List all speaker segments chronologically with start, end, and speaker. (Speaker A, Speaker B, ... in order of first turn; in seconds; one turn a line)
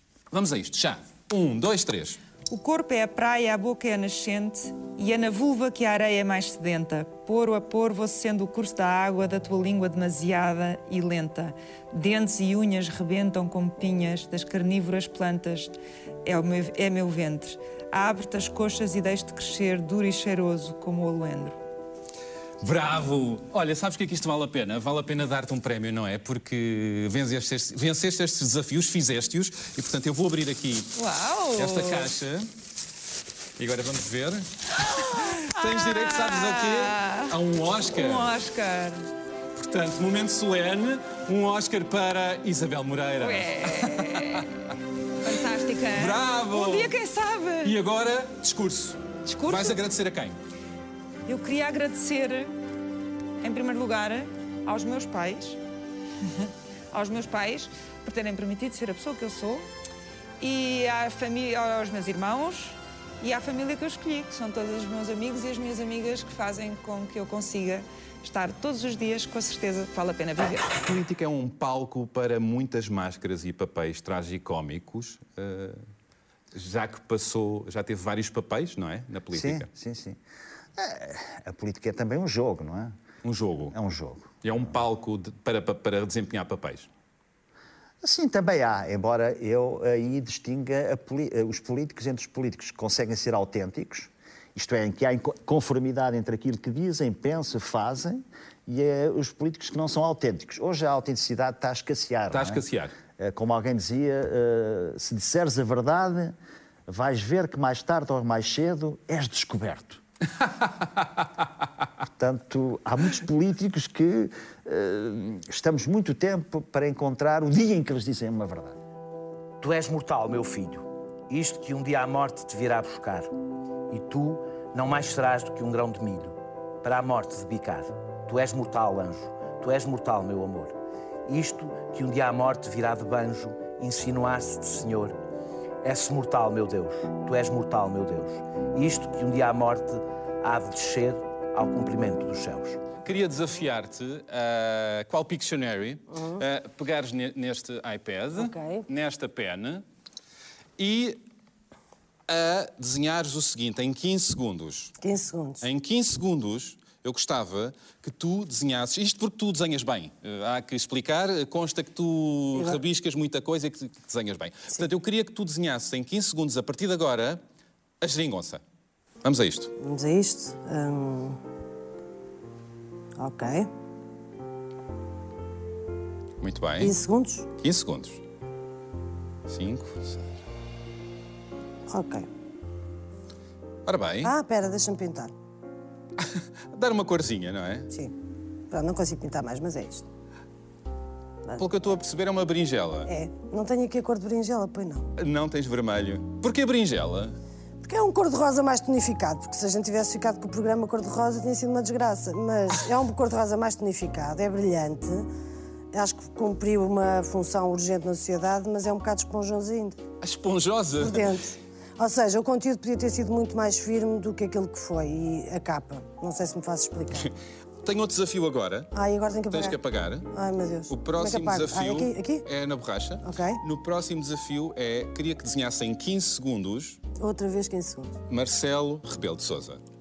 Speaker A: 0.3-2.2
Speaker B: 2.5-21.6
Speaker A: 22.6-30.9
Speaker B: 30.9-32.1
Speaker A: 31.6-32.5
Speaker A: 33.6-38.3
Speaker B: 35.5-37.4
Speaker B: 37.9-39.1
Speaker A: 39.6-44.4
Speaker B: 43.2-44.5
Speaker B: 45.2-47.8
Speaker A: 45.9-47.0
Speaker A: 47.6-50.4
Speaker B: 49.2-49.8
Speaker B: 51.3-52.5
Speaker B: 53.4-55.6
Speaker B: 56.3-59.7
Speaker B: 60.4-70.7
Speaker A: 70.8-75.8
Speaker A: 76.5-79.7
Speaker C: 79.3-80.2
Speaker C: 80.8-83.0
Speaker A: 83.2-83.7
Speaker C: 83.7-84.7
Speaker A: 84.4-86.9
Speaker C: 88.0-102.6
Speaker A: 102.3-102.9
Speaker C: 103.2-106.3
Speaker C: 106.9-110.0
Speaker C: 112.2-118.8
Speaker D: 119.6-123.3
Speaker D: 123.9-130.7
Speaker D: 131.2-135.2
Speaker D: 135.8-142.8
Speaker A: 143.0-149.8
Speaker E: 146.1-146.4
Speaker E: 148.3-148.8
Speaker A: 150.8-151.2
Speaker A: 152.3-154.9
Speaker E: 155.0-155.6
Speaker A: 155.6-167.4
Speaker A: 168.0-168.6
Speaker A: 169.2-169.7
Speaker E: 169.8-171.4
Speaker E: 173.2-173.7
Speaker A: 176.4-176.9
Speaker E: 176.8-177.5
Speaker A: 177.6-178.2
Speaker A: 179.5-180.2
Speaker E: 181.9-182.3
Speaker A: 183.8-184.3
Speaker E: 184.2-185.3
Speaker A: 186.7-187.9
Speaker E: 188.7-190.0
Speaker A: 191.6-193.1
Speaker E: 193.1-195.1
Speaker A: 195.2-197.3
Speaker E: 197.8-205.3
Speaker E: 205.9-210.0
Speaker A: 210.2-211.2
Speaker E: 210.9-217.3
Speaker A: 217.8-218.9
Speaker E: 218.9-219.8
Speaker A: 219.5-220.3
Speaker E: 220.3-222.4
Speaker A: 220.9-227.0
Speaker E: 223.2-223.6
Speaker E: 227.2-228.2
Speaker A: 228.3-229.8